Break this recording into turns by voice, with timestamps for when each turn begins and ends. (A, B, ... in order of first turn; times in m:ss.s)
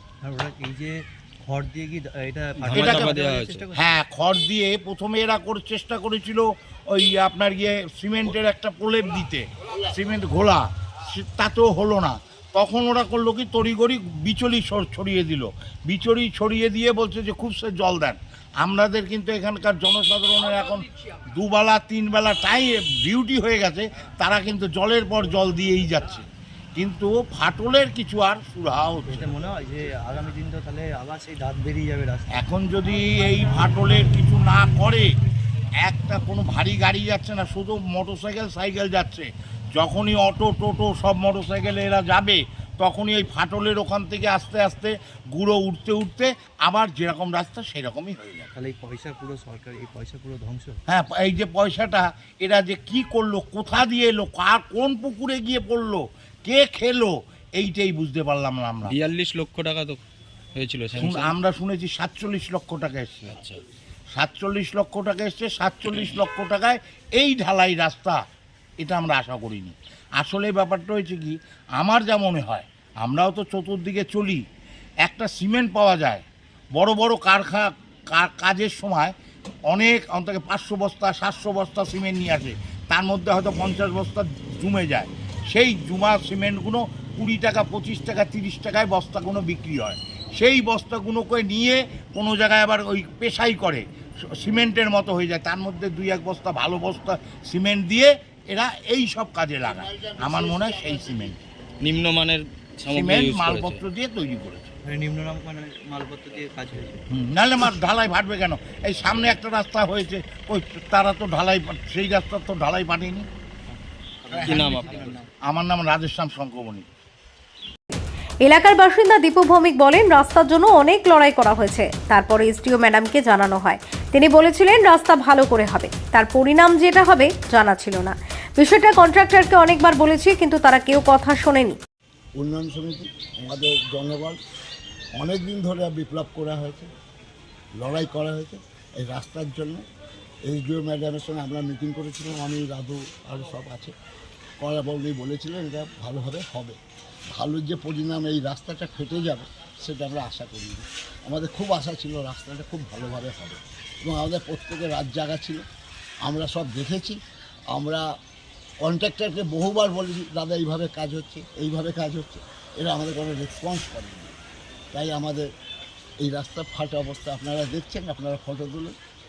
0:00.2-0:04.0 A
0:02.6-0:03.1 B
0:02.6-0:03.6 C
0:03.7-0:20.8 B
0:21.4-0:29.3 B
0:29.1-0:32.4 A
0:32.3-0:35.1 B
0:35.8-0:48.5 B
0:48.5-0:50.8 A
0:50.9-0:59.0 B
0:58.8-1:00.0 C
1:00.6-1:01.4 C
1:01.0-1:03.4 B
1:04.1-1:08.2 B
1:08.8-1:14.4 B
1:15.0-1:19.1 B
1:19.7-1:33.8 B
1:34.4-1:41.4 B
1:39.7-1:41.3 D
1:41.8-1:43.8 C
1:42.9-1:44.7 B
1:44.8-1:47.0 A
1:47.1-1:53.3 B
1:54.3-1:55.1 A
1:54.3-1:56.8 B
1:54.5-1:55.2 C
1:58.4-2:11.8 E
2:12.4-2:14.4 D
2:15.2-2:16.9 D
2:17.8-2:19.8 D
2:20.5-2:23.9 D
2:24.6-2:26.8 D
2:27.3-2:35.6 D
2:36.2-2:37.2 D
2:37.7-2:38.0 D
2:38.8-2:44.3 D
2:44.9-2:45.5 D
2:46.2-2:48.9 D